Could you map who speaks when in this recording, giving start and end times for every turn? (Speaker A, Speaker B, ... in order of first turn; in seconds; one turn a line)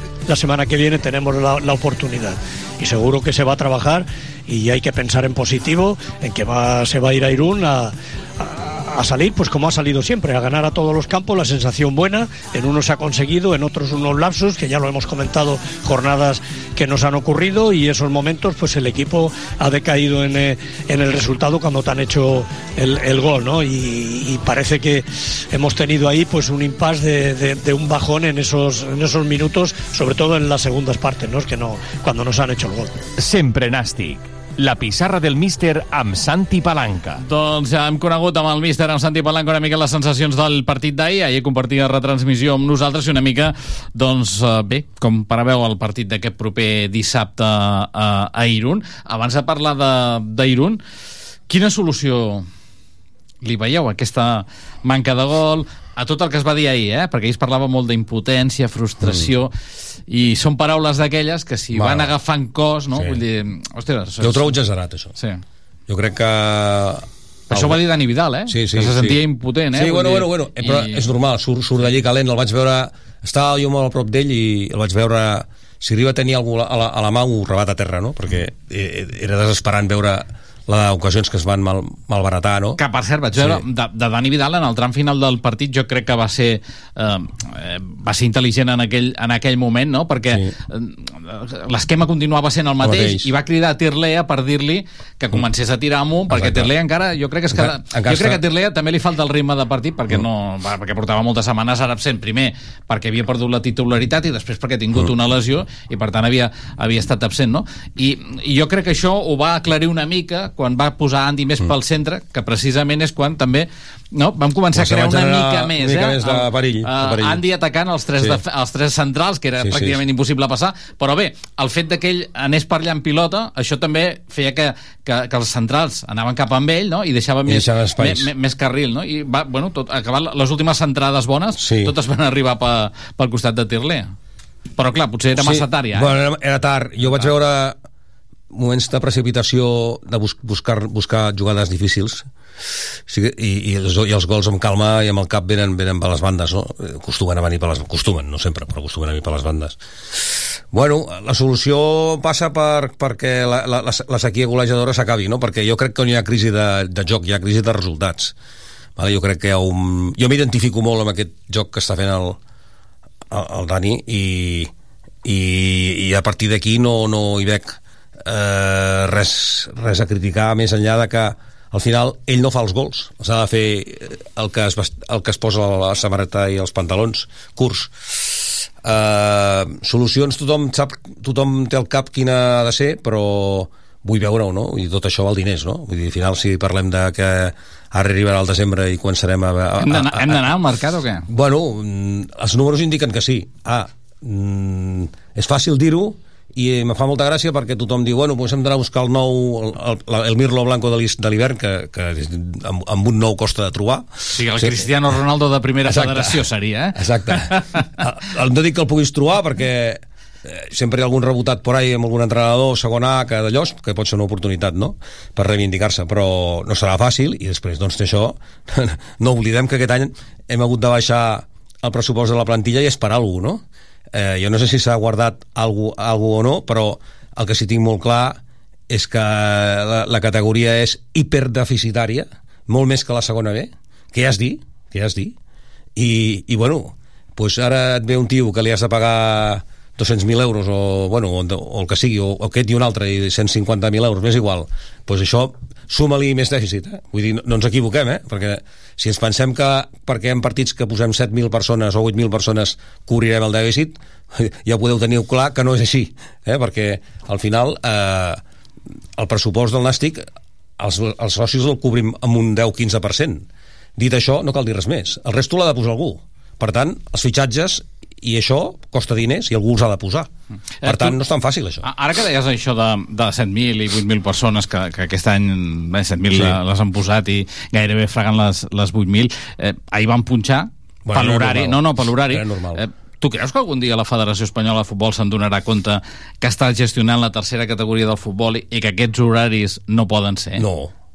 Speaker A: 0.3-32.9
Speaker B: 33.2-37.2
Speaker C: 37.2-50.8
Speaker C: 51.5-52.5
Speaker C: 53.4-59.5
Speaker C: 60.1-64.6
Speaker D: 61.7-62.1
Speaker D: 64.2-65.1
Speaker D: 65.9-67.8
Speaker C: 67.5-71.0
Speaker D: 68.5-69.2
Speaker D: 69.7-82.8
Speaker C: 82.8-134.1
Speaker D: 83.3-83.6
Speaker D: 90.3-90.5
Speaker D: 92.8-93.3
Speaker D: 96.3-96.7
Speaker D: 97.5-98.4
Speaker D: 114.7-117.4
Speaker D: 119.6-120.0
Speaker D: 127.5-128.3
Speaker D: 131.6-131.9
Speaker C: 134.8-136.1
Speaker D: 135.3-137.8
Speaker D: 138.5-142.2
Speaker D: 143.1-158.3
Speaker D: 159.0-162.4
Speaker D: 163.3-164.7
Speaker D: 165.2-190.5
Speaker C: 189.8-191.3
Speaker D: 191.3-204.9
Speaker C: 204.3-207.8
Speaker D: 205.8-223.6
Speaker D: 224.1-235.3
Speaker D: 235.9-258.4
Speaker D: 259.2-260.2
Speaker D: 260.8-270.3
Speaker C: 270.8-271.2
Speaker D: 270.8-271.9
Speaker C: 271.8-290.6
Speaker D: 276.3-276.6
Speaker D: 281.1-282.8
Speaker D: 290.6-290.9